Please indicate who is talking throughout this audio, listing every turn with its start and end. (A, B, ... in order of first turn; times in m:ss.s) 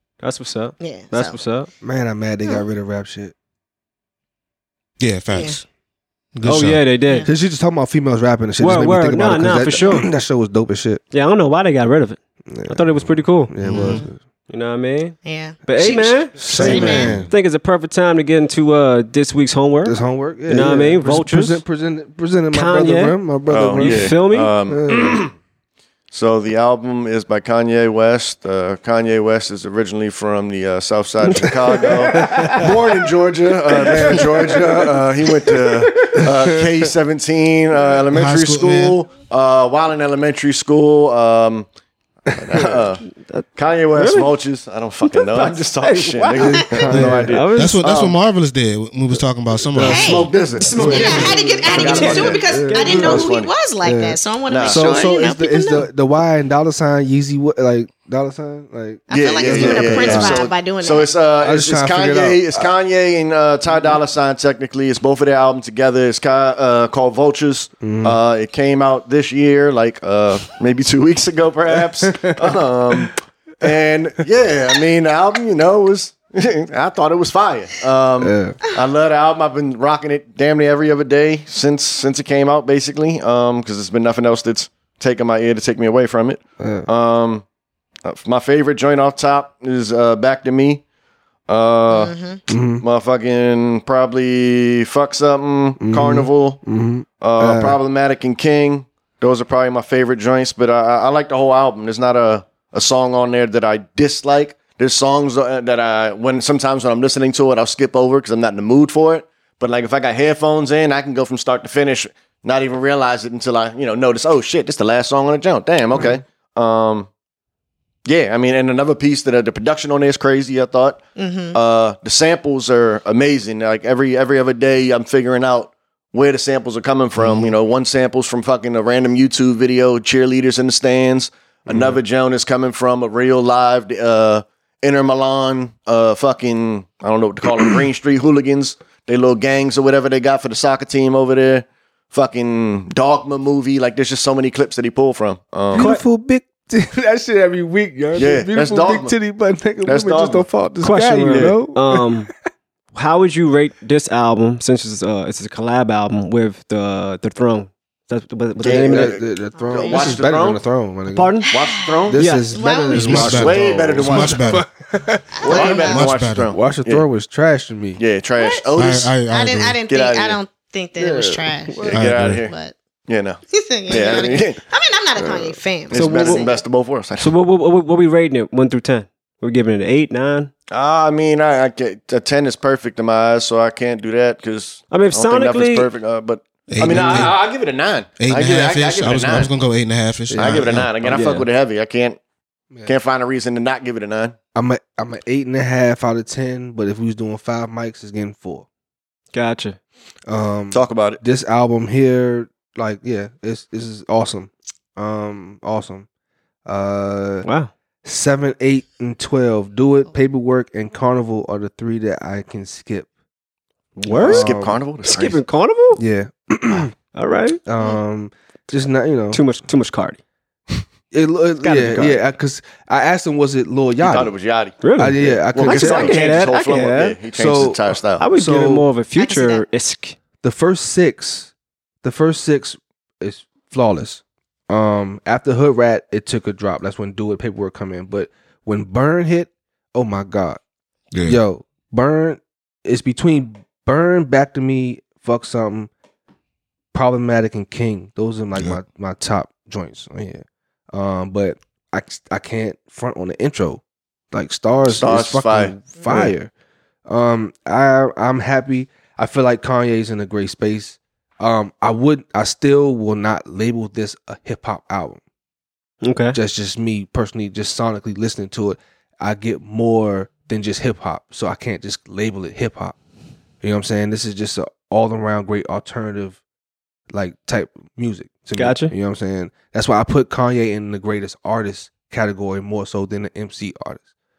0:00.2-0:01.7 A
0:00.8-0:01.4 B
0:01.8-0:03.3 C
0:05.0-0:05.6 D
0:05.3-0:05.6 B
0:06.3-0:06.8 D
0:06.4-0:07.3 A
0:07.2-0:11.0 C
0:08.6-0:10.1 A
0:11.1-0:13.7 A
0:12.5-0:14.2 C
0:13.6-0:14.0 D
0:13.8-0:14.1 B
0:14.5-0:21.6 A
0:15.2-0:17.1 B
0:16.4-0:17.3 C
0:16.6-0:17.2 D
0:19.8-0:24.1 C
0:22.5-0:23.2 A
0:23.5-0:25.3 E
0:23.7-0:24.5 A
0:24.7-0:25.2 C
0:26.1-0:41.7 E
0:31.3-0:32.6 A
0:32.1-0:32.6 C
0:33.7-0:35.0 C
0:36.1-0:36.7 C
0:38.1-0:39.0 D
0:42.3-0:48.2 E
0:42.4-0:42.8 C
0:43.2-0:44.3 A
0:45.0-0:47.8 A
0:46.3-0:47.4 C
0:46.5-0:46.9 B
0:46.9-0:50.3 D
0:49.7-0:50.1 C
0:49.7-0:53.5 E
0:49.8-0:55.9 B
0:50.6-0:53.2 A
0:50.7-0:53.3 C
0:53.8-1:00.4 C
0:54.5-0:55.1 E
0:59.1-1:01.1 B
0:59.1-1:27.4 E
1:01.4-1:02.7 C
1:07.8-1:08.2 C
1:12.0-1:13.0 C
1:18.2-1:18.6 C
1:26.6-1:26.9 C
1:28.0-1:30.8 E
1:31.5-1:32.1 E
1:31.9-1:32.4 B
1:32.5-1:32.8 C
1:32.8-1:36.6 E
1:35.8-1:37.8 C
1:37.2-1:57.1 E
1:58.0-2:01.0 E
2:01.2-2:01.6 B
2:01.5-2:25.9 E
2:07.2-2:07.5 C
2:11.7-2:12.0 C
2:25.7-2:32.1 C
2:25.7-2:26.0 A
2:28.1-2:29.1 E
2:29.8-2:30.4 E
2:30.8-2:32.3 A
2:31.3-2:31.6 E
2:32.9-2:39.2 A
2:38.6-2:40.6 E
2:38.7-2:41.3 C
2:39.5-2:40.2 B
2:41.1-2:41.6 A
2:41.5-2:42.2 E
2:41.5-2:43.4 B
2:42.1-2:48.0 C
2:42.1-2:42.5 A
2:42.9-2:44.7 D
2:43.0-2:44.5 E
2:45.3-2:46.1 B
2:45.4-2:47.0 E
2:45.6-2:46.5 D
2:48.0-2:49.2 E
2:48.4-2:48.7 B
2:48.7-2:49.8 D
2:49.2-2:52.7 B
2:49.9-2:50.4 E
2:51.0-2:52.1 C
2:51.8-2:52.5 E
2:51.9-2:52.4 D
2:53.1-2:54.6 E
2:53.5-2:56.6 B
2:55.2-2:55.6 C
2:55.9-2:57.3 E
2:55.9-2:56.6 A
2:57.2-3:00.5 A
3:00.7-3:09.5 E
3:04.9-3:05.9 A
3:06.7-3:07.4 D
3:06.9-3:07.3 C
3:08.2-3:10.9 D
3:10.3-3:11.2 C
3:10.4-3:12.2 E
3:11.1-3:11.5 A
3:12.8-3:14.3 E
3:14.5-3:18.7 C
3:19.3-3:19.8 A
3:20.3-3:26.0 C
3:20.7-3:21.2 E
3:26.6-3:27.4 C
3:27.4-3:27.7 A
3:28.0-3:33.1 C
3:34.0-3:36.0 A
3:34.1-3:34.8 C
3:34.2-3:35.4 E
3:35.9-3:36.9 C
3:37.1-3:37.6 A
3:37.6-3:39.4 C
3:39.3-3:40.2 A
3:41.1-3:44.3 C
3:41.6-3:42.2 A
3:44.0-3:48.2 E
3:44.8-3:47.2 A
3:45.0-3:46.4 C
3:47.3-3:48.9 C
3:48.2-3:50.1 A
3:49.2-3:49.6 B
3:50.4-3:51.5 C
3:52.0-4:00.6 C
4:01.1-4:01.4 D
4:01.2-4:05.9 C
4:06.9-4:16.5 C
4:14.9-4:15.7 E
4:17.0-4:25.2 C
4:26.0-4:26.4 A
4:26.3-4:33.0 C
4:33.6-4:36.4 C
4:37.1-4:44.0 C
4:38.6-4:38.9 A